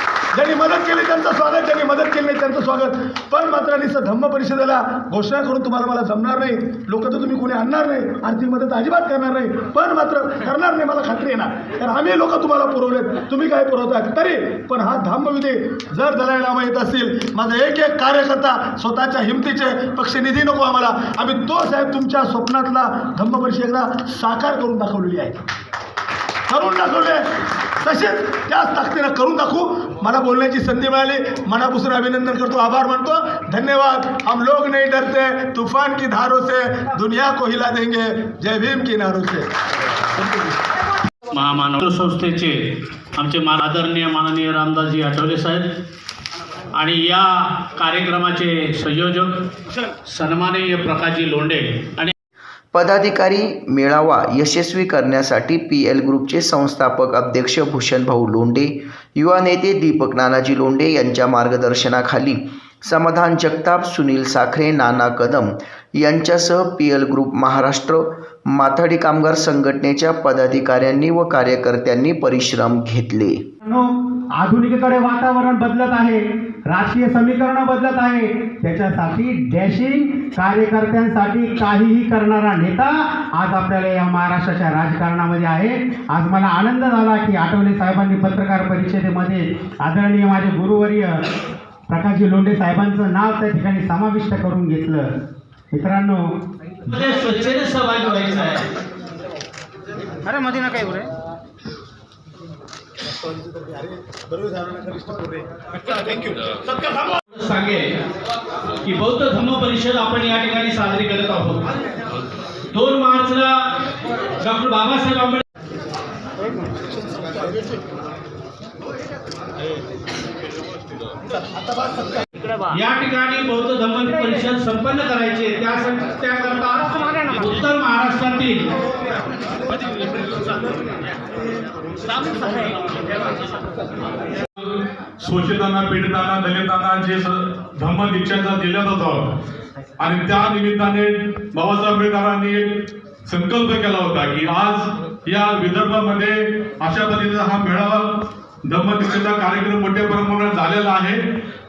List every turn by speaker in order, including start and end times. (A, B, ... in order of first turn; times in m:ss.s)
0:00.3-0:25.4 A
0:26.5-0:27.3 A
0:27.8-0:39.5 A
0:41.3-0:45.7 B
0:46.7-0:49.4 B
0:50.1-0:52.1 B
0:52.7-1:13.4 C
1:13.6-1:31.2 D
1:31.9-1:35.2 D
1:35.7-1:36.4 D
1:36.8-1:38.7 B
1:40.3-1:41.1 B
1:44.9-1:45.2 A
1:47.3-1:48.0 B
1:48.8-1:51.6 B
1:52.7-1:53.8 B
1:54.4-1:55.4 B
2:02.7-2:08.7 B
2:15.2-2:19.3 E
2:20.0-2:31.2 E